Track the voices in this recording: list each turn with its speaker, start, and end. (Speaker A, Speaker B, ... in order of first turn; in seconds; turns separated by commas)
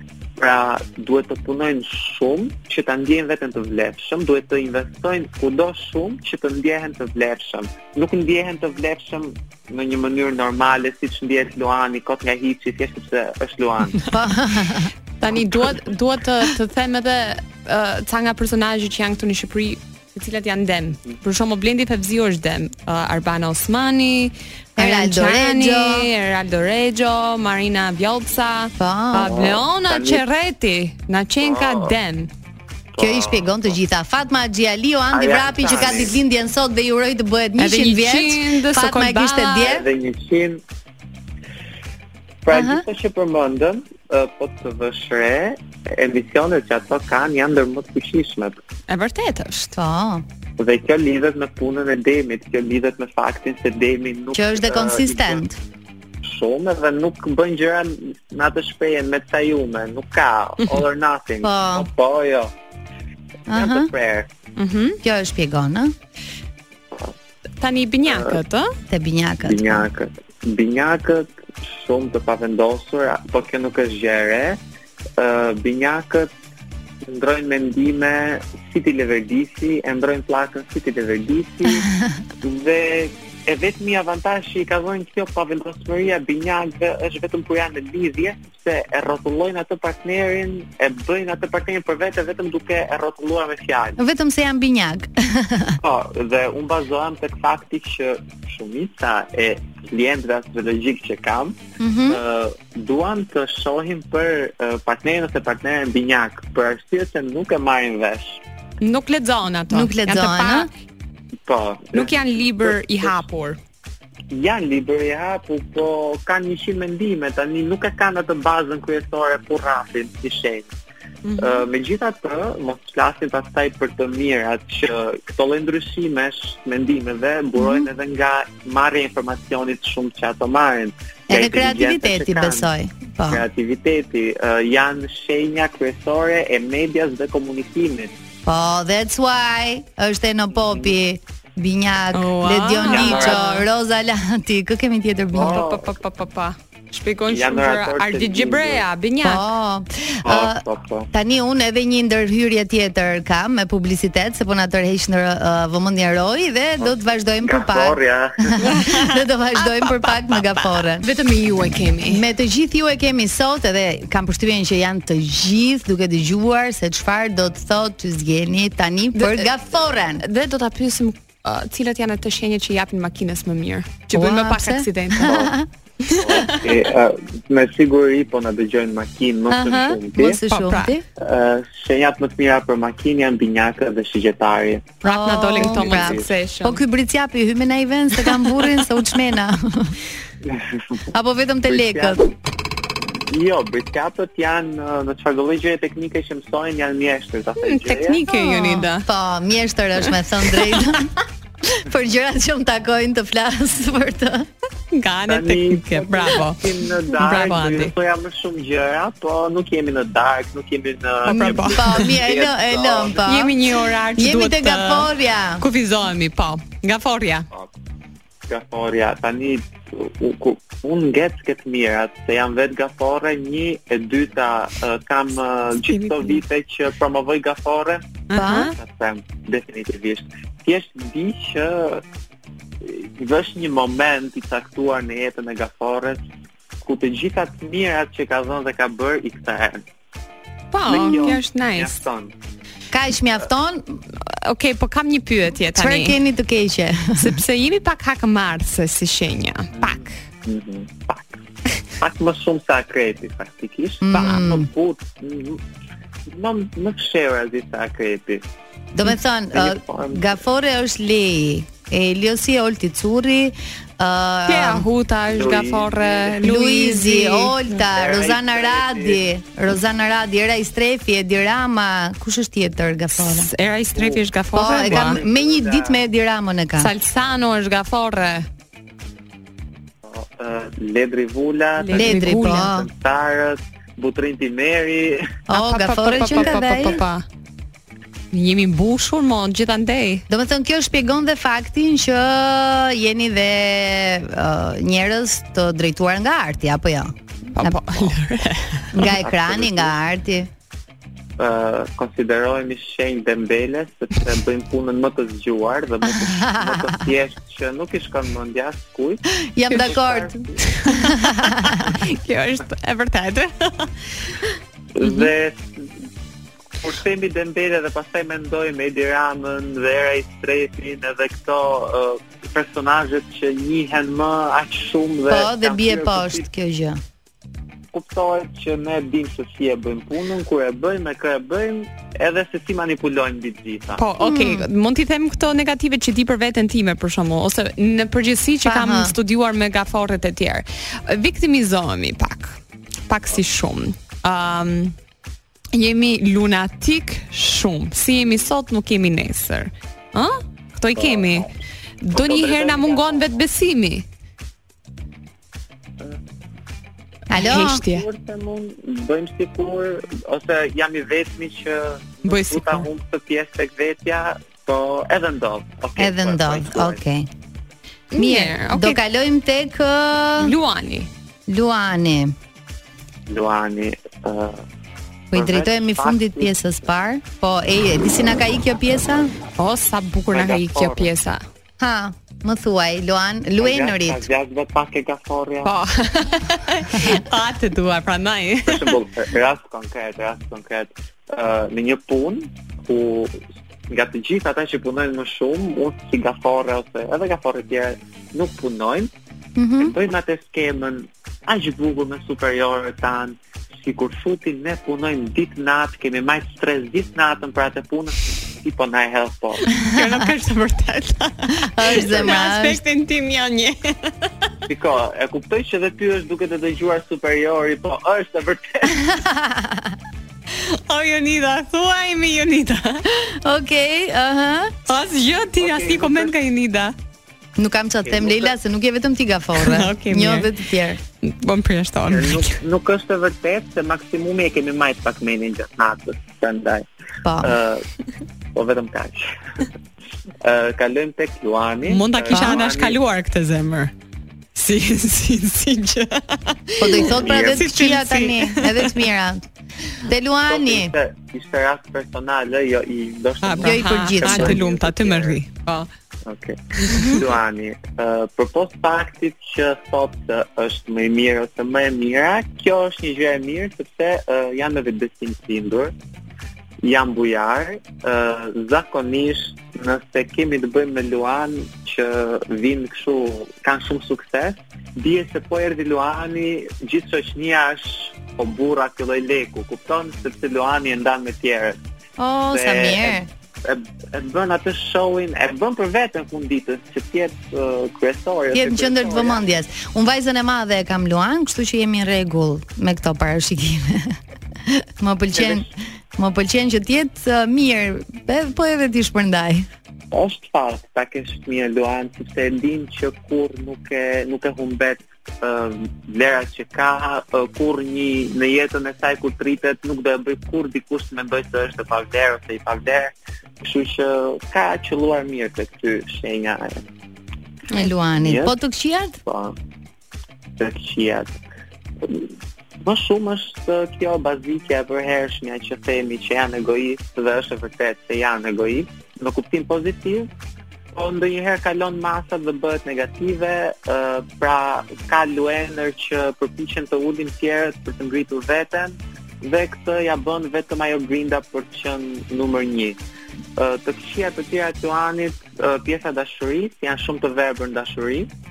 Speaker A: 0.4-14.0, Speaker B: 14.1-14.9, Speaker C: 15.2-32.3, Speaker B: 24.8-26.1, Speaker B: 28.8-29.4, Speaker A: 29.2-30.2, Speaker A: 31.4-31.9, Speaker A: 32.9-33.8, Speaker B: 33.0-39.9, Speaker A: 35.1-36.2, Speaker C: 37.6-39.7, Speaker A: 39.6-40.6, Speaker A: 42.4-48.6, Speaker B: 42.5-42.8, Speaker C: 48.9-49.7, Speaker B: 49.7-50.2, Speaker A: 50.6-55.4, Speaker B: 54.3-55.6, Speaker A: 56.2-62.5, Speaker B: 61.4-61.9, Speaker B: 63.5-63.9, Speaker A: 63.5-64.3, Speaker C: 64.6-65.0, Speaker B: 65.0-65.9, Speaker C: 67.6-68.7, Speaker A: 68.0-68.4, Speaker B: 68.9-69.9, Speaker A: 69.4-74.6, Speaker A: 75.2-76.3, Speaker A: 77.1-81.9, Speaker A: 82.4-94.0, Speaker B: 94.0-95.8, Speaker A: 95.8-101.6, Speaker B: 101.8-102.2, Speaker A: 102.1-108.4, Speaker C: 108.8-110.7, Speaker B: 109.7-110.7, Speaker A: 111.5-113.2, Speaker C: 111.9-113.6, Speaker A: 114.3-120.7, Speaker C: 121.2-121.7, Speaker A: 121.4-132.7, Speaker B: 127.6-127.9, Speaker B: 131.3-133.4, Speaker A: 133.3-138.1, Speaker B: 138.4-145.7, Speaker A: 140.6-140.9, Speaker C: 142.1-143.6, Speaker A: 142.8-143.4, Speaker A: 145.3-145.9, Speaker C: 145.3-149.4, Speaker A: 147.3-148.8, Speaker B: 149.2-150.6, Speaker A: 150.2-151.1, Speaker B: 151.1-161.1, Speaker A: 156.8-158.6, Speaker C: 158.6-162.2, Speaker B: 162.0-170.2, Speaker C: 169.1-169.5, Speaker C: 170.2-175.3, Speaker B: 174.1-175.7, Speaker A: 175.2-175.5, Speaker C: 176.1-176.6, Speaker A: 176.2-180.4, Speaker B: 179.5-181.0, Speaker C: 180.5-180.9, Speaker A: 181.2-185.0, Speaker C: 185.0-186.8, Speaker B: 185.0-189.9, Speaker A: 185.5-186.3, Speaker A: 190.4-190.9, Speaker B: 191.1-192.2, Speaker A: 191.7-192.3, Speaker A: 193.3-198.2, Speaker C: 197.6-199.1, Speaker B: 198.3-201.1, Speaker B: 201.6-204.5, Speaker C: 204.9-207.9, Speaker A: 205.3-213.2, Speaker B: 211.2-213.6, Speaker C: 211.3-212.1, Speaker C: 213.2-217.5, Speaker B: 214.2-215.6, Speaker A: 218.5-232.0, Speaker C: 225.9-226.4, Speaker C: 228.3-228.7, Speaker B: 228.3-228.7, Speaker A: 232.8-236.2, Speaker A: 236.8-239.8, Speaker C: 240.7-242.0, Speaker A: 240.8-242.3, Speaker B: 242.9-244.0, Speaker C: 244.2-246.2, Speaker B: 245.7-247.4, Speaker C: 247.2-250.1, Speaker A: 249.8-251.3, Speaker A: 252.0-255.6, Speaker B: 254.0-254.7, Speaker A: 256.3-258.4, Speaker B: 258.9-264.9, Speaker A: 259.5-260.4, Speaker C: 264.5-267.6, Speaker A: 265.3-266.4, Speaker B: 266.4-273.5, Speaker A: 267.8-269.2, Speaker C: 273.2-275.2, Speaker A: 273.9-276.0, Speaker B: 274.5-276.9, Speaker C: 276.8-278.5, Speaker A: 280.0-285.3, Speaker C: 281.8-282.7, Speaker B: 281.9-282.9, Speaker B: 285.5-287.0, Speaker C: 285.5-287.2, Speaker A: 286.2-287.0, Speaker C: 288.3-290.2, Speaker B: 290.3-297.8, Speaker C: 297.5-299.1, Speaker B: 298.9-300.5, Speaker A: 299.0-299.9, Speaker A: 301.4-310.6, Speaker B: 306.0-306.9, Speaker B: 309.5-310.3, Speaker C: 309.7-309.9, Speaker C: 310.6-314.3, Speaker B: 310.9-311.9, Speaker A: 314.9-315.9, Speaker A: 316.8-326.4, Speaker B: 325.3-327.0, Speaker A: 327.9-334.0, Speaker C: 334.0-342.5, Speaker B: 334.2-334.7, Speaker B: 338.6-339.1, Speaker C: 343.1-344.9, Speaker C: 345.7-351.5, Speaker A: 350.9-351.5, Speaker C: 352.0-354.0, Speaker A: 352.1-353.4, Speaker B: 357.3-357.8, Speaker C: 357.3-358.1, Speaker A: 357.6-367.0, Speaker C: 362.2-362.9, Speaker B: 366.0-367.3, Speaker C: 368.1-369.0, Speaker B: 368.1-370.5, Speaker C: 370.4-371.1, Speaker B: 371.5-372.3, Speaker A: 373.3-374.6, Speaker A: 375.3-376.5, Speaker B: 375.3-379.3, Speaker C: 379.6-381.4, Speaker A: 380.3-381.1, Speaker B: 381.8-384.2, Speaker A: 383.6-385.7, Speaker C: 385.6-388.9, Speaker A: 388.6-393.4, Speaker A: 393.9-399.1, Speaker B: 399.6-399.9, Speaker A: 399.8-409.7, Speaker C: 409.7-414.3, Speaker B: 411.5-412.8, Speaker A: 414.7-419.1, Speaker B: 418.9-419.9, Speaker C: 420.5-423.1, Speaker B: 423.2-424.7, Speaker C: 424.9-426.9, Speaker A: 425.6-426.3, Speaker B: 427.6-431.0, Speaker A: 428.0-428.5, Speaker C: 429.6-430.5, Speaker C: 431.2-432.6, Speaker A: 432.1-436.8, Speaker B: 437.2-437.6, Speaker A: 437.4-437.8, Speaker A: 438.5-439.6, Speaker A: 440.4-443.0, Speaker C: 441.8-443.9, Speaker B: 442.3-442.6, Speaker C: 444.5-449.1, Speaker B: 446.8-449.4, Speaker A: 447.1-447.6, Speaker B: 450.0-450.9, Speaker A: 450.5-455.4, Speaker C: 453.4-455.9, Speaker B: 453.6-454.6, Speaker A: 456.2-465.9, Speaker C: 456.8-457.2, Speaker A: 466.8-481.8, Speaker B: 482.2-483.3, Speaker A: 482.5-489.4, Speaker B: 488.5-499.7, Speaker A: 495.3-495.6, Speaker A: 500.1-516.8, Speaker B: 517.7-519.2, Speaker A: 518.2-518.5, Speaker A: 519.2-519.5, Speaker A: 520.6-521.3, Speaker A: 522.0-530.3, Speaker A: 530.9-543.0, Speaker A: 543.6-548.3